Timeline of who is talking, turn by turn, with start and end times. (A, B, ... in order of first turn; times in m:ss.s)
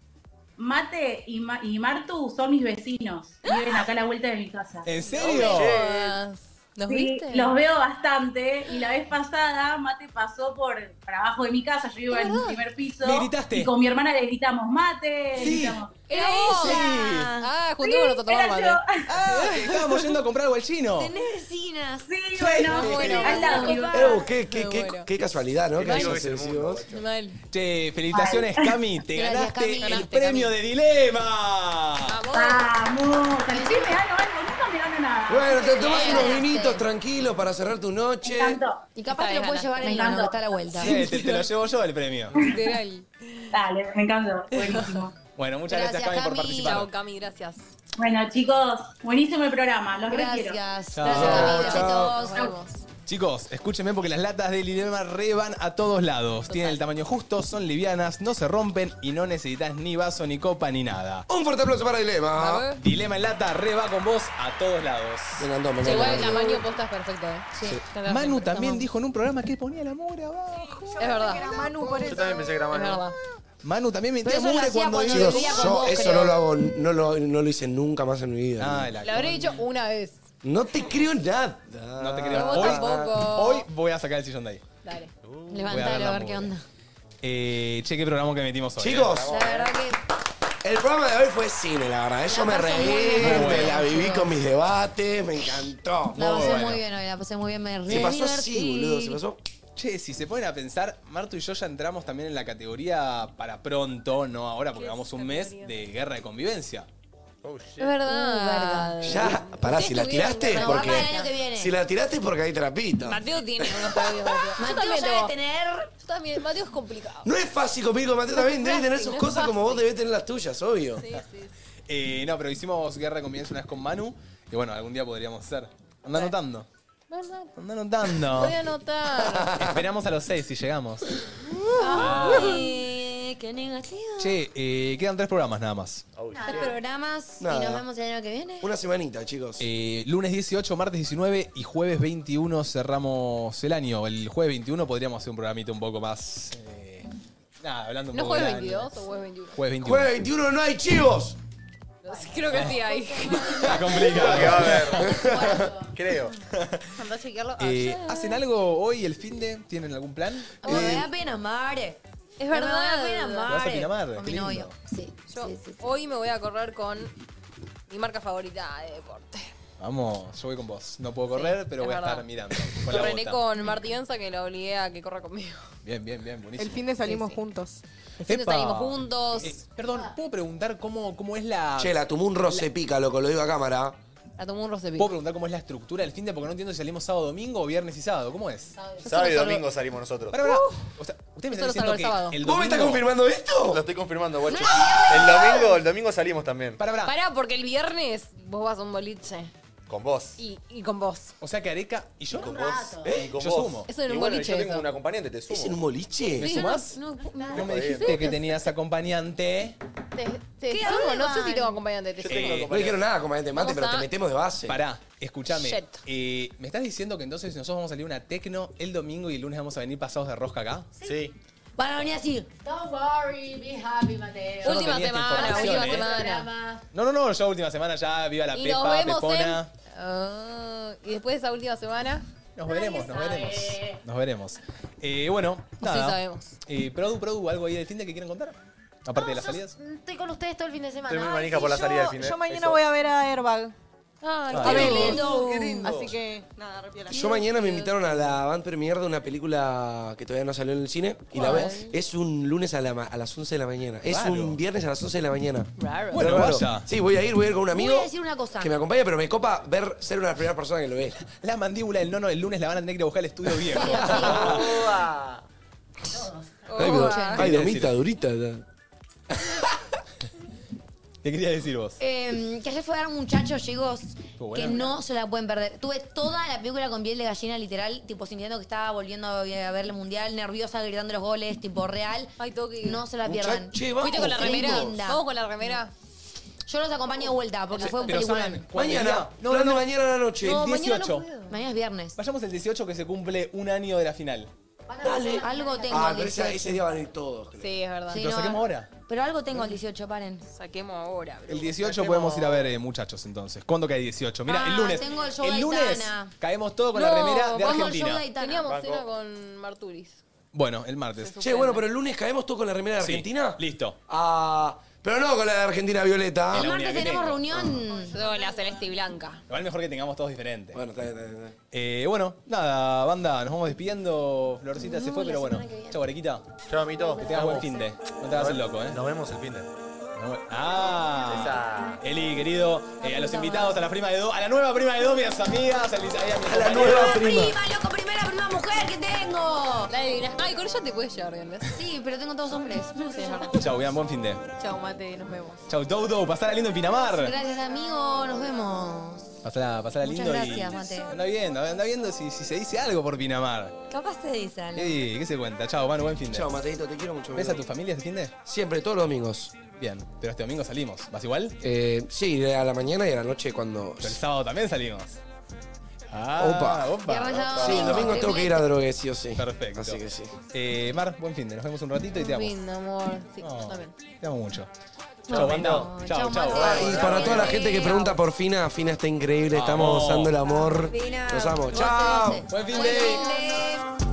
0:00.6-0:04.9 A
0:03.4-0:03.8 B
0:04.8-0:05.8 C
0:05.0-0:07.6 B
0:05.2-0:06.2 D
0:06.9-0:16.0 A
0:12.1-0:12.7 B
0:13.0-0:13.7 C
0:15.3-0:15.9 C
0:16.1-0:17.5 E
0:16.1-0:20.1 B
0:16.4-0:17.3 C
0:17.8-0:19.1 A
0:19.1-0:21.1 C
0:21.0-0:22.1 E
0:22.1-0:24.1 A
0:22.4-0:23.7 C
0:22.7-0:24.3 E
0:22.7-0:25.1 B
0:23.9-0:26.8 F
0:25.8-0:27.0 D
0:26.9-0:27.4 B
0:27.5-0:32.2 C
0:28.1-0:28.8 A
0:29.1-0:30.5 E
0:29.8-0:30.1 B
0:32.1-0:32.7 B
0:32.3-0:36.2 A
0:33.5-0:34.0 B
0:35.3-0:38.6 F
0:35.7-0:36.9 E
0:35.8-0:36.4 B
0:38.2-0:38.8 A
0:39.0-0:41.0 E
0:39.1-0:40.2 B
0:39.8-0:40.4 A
0:40.8-0:42.4 C
0:40.8-0:41.5 B
0:42.3-0:43.6 B
0:42.4-0:42.7 A
0:43.5-0:45.1 A
0:44.5-0:45.1 B
0:45.4-0:46.9 C
0:45.7-0:46.8 E
0:46.6-0:47.7 B
0:48.0-0:50.6 A
0:50.1-0:52.5 E
0:50.9-0:51.8 C
0:51.0-0:52.2 F
0:51.1-0:52.8 B
0:53.1-1:01.3 C
0:56.5-0:56.8 B
1:01.3-1:02.7 F
1:02.4-1:02.8 B
1:02.8-1:06.0 C
1:05.4-1:06.6 F
1:05.8-1:08.9 B
1:07.6-1:07.8 E
1:08.0-1:10.9 C
1:10.9-1:12.6 G
1:11.0-1:11.9 B
1:12.0-1:13.1 D
1:12.7-1:13.2 B
1:13.6-1:15.9 C
1:14.2-1:16.5 E
1:15.0-1:18.9 F
1:18.6-1:19.6 C
1:19.0-1:20.2 B
1:20.4-1:23.2 F
1:22.0-1:24.6 C
1:22.3-1:23.7 B
1:24.8-1:25.1 B
1:25.2-1:25.8 D
1:25.5-1:26.6 E
1:25.7-1:26.5 C
1:27.2-1:29.2 C
1:28.8-1:29.5 F
1:29.0-1:29.7 D
1:29.2-1:30.0 E
1:30.6-1:36.4 F
1:32.3-1:34.3 E
1:33.2-1:33.8 C
1:36.2-1:39.2 E
1:36.2-1:36.8 C
1:37.9-1:39.4 F
1:39.8-1:46.9 C
1:44.8-1:45.8 B
1:47.4-1:48.0 D
1:47.8-1:51.3 B
1:48.0-1:49.4 E
1:49.0-1:54.2 F
1:50.5-1:51.8 E
1:53.0-1:55.3 B
1:54.6-1:55.9 E
1:56.0-1:57.3 B
1:57.2-2:01.1 F
1:58.4-1:59.8 B
2:01.0-2:01.5 B
2:01.9-2:06.7 C
2:07.1-2:07.5 B
2:07.6-2:08.6 C
2:08.2-2:09.6 B
2:09.2-2:09.8 F
2:09.5-2:11.2 C
2:11.8-2:14.4 E
2:11.8-2:12.7 C
2:14.2-2:16.0 C
2:16.2-2:16.7 D
2:16.3-2:16.7 H
2:16.5-2:18.7 E
2:17.4-2:17.8 F
2:18.6-2:19.7 F
2:19.6-2:27.1 C
2:27.6-2:29.0 C
2:28.1-2:29.6 B
2:29.6-2:30.2 C
2:29.8-2:31.4 F
2:32.0-2:33.8 B
2:32.1-2:33.6 H
2:32.5-2:32.8 C
2:33.6-2:35.0 C
2:34.2-2:35.7 F
2:34.2-2:35.3 D
2:34.8-2:35.8 E
2:35.2-2:35.9 H
2:35.9-2:36.4 D
2:37.0-2:38.4 B
2:37.2-2:37.6 H
2:37.6-2:41.1 C
2:40.6-2:42.0 E
2:42.4-2:43.5 B
2:42.5-2:45.9 E
2:43.5-2:44.8 C
2:45.3-2:47.1 B
2:47.9-2:49.5 B
2:49.8-2:53.4 C
2:51.3-2:55.7 B
2:55.8-2:56.8 C
2:56.6-2:57.8 G
2:57.0-2:57.4 B
2:58.2-2:59.6 B
2:58.2-3:02.0 C
3:01.8-3:04.0 F
3:04.4-3:05.1 B
3:05.0-3:08.8 C
3:09.0-3:09.6 B
3:09.0-3:10.4 D
3:10.3-3:13.1 C
3:10.4-3:10.8 B
3:11.5-3:12.4 B
3:12.4-3:13.8 F
3:13.7-3:16.8 D
3:14.4-3:15.8 E
3:16.8-3:17.2 C
3:17.0-3:19.5 B
3:19.9-3:20.4 D
3:20.4-3:21.3 B
3:21.4-3:23.9 C
3:22.3-3:23.2 H
3:22.3-3:25.8 D
3:23.9-3:24.9 B
3:25.5-3:26.6 F
3:26.4-3:29.8 C
3:26.4-3:26.9 B
3:26.7-3:28.2 E
3:27.5-3:28.2 D
3:28.0-3:28.4 B
3:30.2-3:32.6 B
3:30.7-3:31.7 E
3:32.2-3:33.1 D
3:32.3-3:32.7 C
3:32.6-3:34.8 F
3:33.6-3:34.1 B
3:34.7-3:40.9 C
3:35.5-3:36.0 B
3:41.0-3:41.3 D
3:41.8-3:42.5 E
3:42.6-3:46.8 H
3:44.6-3:46.1 C
3:44.6-3:46.5 B
3:46.9-3:49.7 C
3:48.5-3:52.3 B
3:52.6-3:59.8 C
3:52.7-3:54.0 H
3:55.8-3:56.6 B
3:59.2-4:02.1 H
4:01.0-4:02.8 D
4:01.7-4:03.7 G
4:04.2-4:05.4 B
4:04.5-4:05.1 C
4:04.6-4:05.9 E
4:04.8-4:06.2 D
4:05.0-4:07.4 G
4:07.1-4:21.2 F
4:07.2-4:08.2 B
4:11.4-4:11.7 C
4:11.4-4:11.9 B
4:14.1-4:14.6 C
4:15.8-4:16.2 B
4:16.1-4:16.9 C
4:17.7-4:18.8 E
4:21.2-4:24.8 C
4:23.8-4:24.4 E
4:23.8-4:24.6 F
4:24.2-4:25.4 D
4:26.1-4:26.7 H
4:26.7-4:27.4 B
4:26.8-4:28.6 F
4:26.8-4:27.4 E
4:27.4-4:27.9 C
4:31.2-4:32.0 C
4:32.0-4:45.2 E
4:34.4-4:35.0 C
4:42.4-4:43.1 B
4:43.2-4:45.0 F
4:44.0-4:45.9 B
4:46.7-4:48.7 E
4:47.7-4:48.2 B
4:48.0-4:51.3 C
4:48.7-4:50.7 F
4:50.4-4:51.6 B
4:51.5-4:52.2 E
4:52.2-4:54.5 C
4:54.9-4:56.7 H
4:55.0-4:57.7 F
4:55.3-4:56.8 E
4:57.6-4:58.2 B
4:58.1-5:00.4 E
4:58.1-4:58.9 C
5:00.5-5:02.7 B
5:01.5-5:08.3 C
5:04.5-5:06.3 E
5:06.9-5:10.2 B
5:07.6-5:08.7 E
5:08.6-5:09.1 D
5:10.5-5:11.4 C
5:11.2-5:11.8 B
5:11.4-5:16.7 F
5:13.0-5:14.0 C
5:16.5-5:17.6 C
5:16.5-5:18.2 E
5:17.5-5:17.8 F
5:18.1-5:19.4 B
5:19.5-5:20.8 C
5:20.7-5:21.6 F
5:21.7-5:26.5 C
5:24.8-5:26.0 E
5:26.7-5:27.8 D
5:27.2-5:29.0 C
5:28.3-5:29.7 D
5:30.2-5:37.2 C
5:31.3-5:32.0 D
5:33.0-5:33.8 E
5:36.4-5:37.6 F
5:36.8-5:39.9 E
5:39.9-5:41.8 B
5:41.8-5:43.5 E
5:43.1-5:43.5 B
5:43.5-5:44.4 C
5:44.6-5:45.6 G
5:45.7-5:47.4 C
5:47.1-5:49.4 E
5:49.4-5:53.8 C
5:50.0-5:51.1 E
5:53.9-5:55.0 E
5:54.8-5:56.5 C
5:56.3-5:57.6 F
5:57.3-5:58.4 C
5:58.5-5:59.5 F
5:59.7-6:01.6 C
6:01.6-6:04.2 F
6:04.0-6:05.2 C
6:06.1-6:08.1 C
6:06.4-6:07.0 F
6:07.0-6:08.7 E
6:07.4-6:07.9 D
6:07.6-6:10.4 F
6:09.4-6:12.6 C
6:12.2-6:14.0 B
6:13.4-6:14.7 C
6:15.3-6:18.2 E
6:15.3-6:17.6 C
6:15.4-6:15.9 D
6:16.5-6:23.2 F
6:16.5-6:17.4 D
6:19.5-6:20.3 C
6:20.4-6:23.9 E
6:21.8-6:23.3 C